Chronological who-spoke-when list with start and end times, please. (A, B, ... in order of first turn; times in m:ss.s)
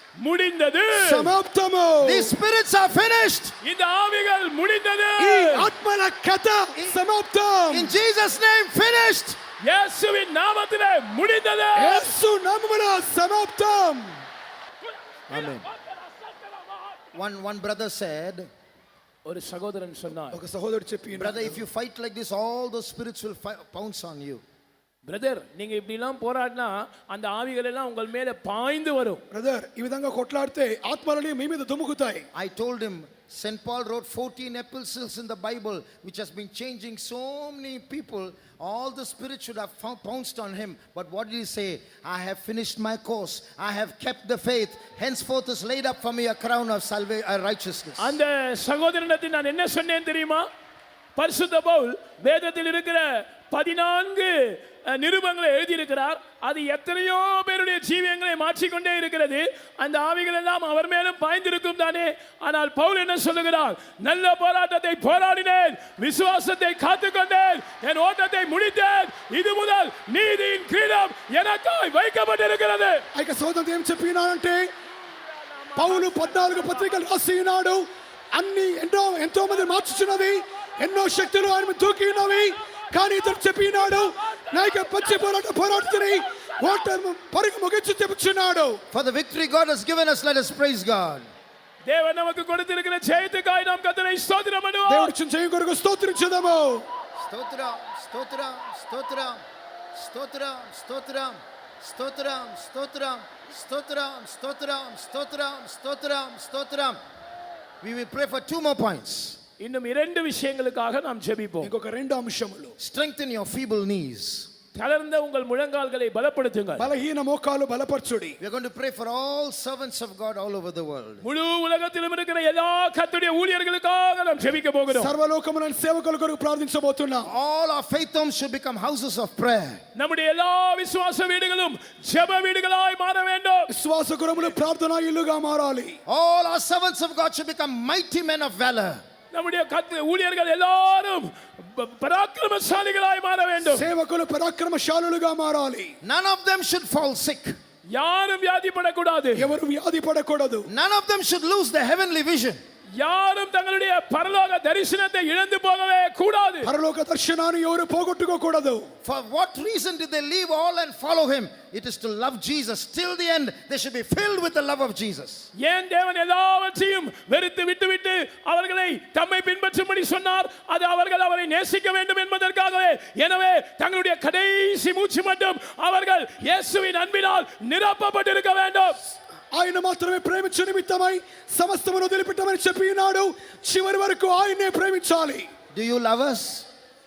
0:00.2-0:01.3 A
0:01.0-0:02.3 B
0:02.0-0:03.6 C
0:03.6-0:05.7 A
0:05.2-0:07.9 B
0:06.7-0:07.0 C
0:07.7-0:09.4 C
0:09.6-0:12.2 A
0:11.8-0:14.2 B
0:14.8-0:17.0 A
0:15.3-0:15.7 C
0:17.1-0:18.5 C
0:19.2-0:20.4 A
0:20.3-0:21.6 B
0:21.2-0:24.4 C
0:25.1-0:29.2 A
0:29.3-0:32.3 B
0:32.3-0:48.2 C
0:48.0-0:50.5 A
0:51.2-1:13.1 A
1:13.1-1:14.7 B
1:14.8-1:17.0 A
1:15.8-1:28.8 B
1:19.7-1:26.9 A
1:28.9-1:31.3 C
1:31.8-1:35.1 A
1:34.9-1:36.8 B
1:37.2-1:39.4 C
1:39.9-1:47.0 C
1:47.8-1:49.4 C
1:49.6-1:51.7 A
1:51.6-1:52.7 B
1:52.8-1:54.5 C
1:54.8-1:56.9 A
1:56.8-1:58.4 B
1:58.4-2:01.3 C
2:01.2-2:05.1 A
2:04.9-2:07.3 B
2:07.2-2:09.8 C
2:10.0-2:13.7 A
2:13.7-2:16.0 B
2:16.1-2:19.0 C
2:19.3-2:23.9 A
2:23.7-2:25.9 B
2:26.0-2:27.5 C
2:27.9-2:29.5 A
2:29.4-2:30.7 B
2:30.7-2:32.6 C
2:33.0-2:36.7 A
2:36.6-2:38.9 B
2:39.0-2:45.5 C
2:45.6-2:59.0 A
2:59.5-3:05.5 B
3:05.7-3:06.7 C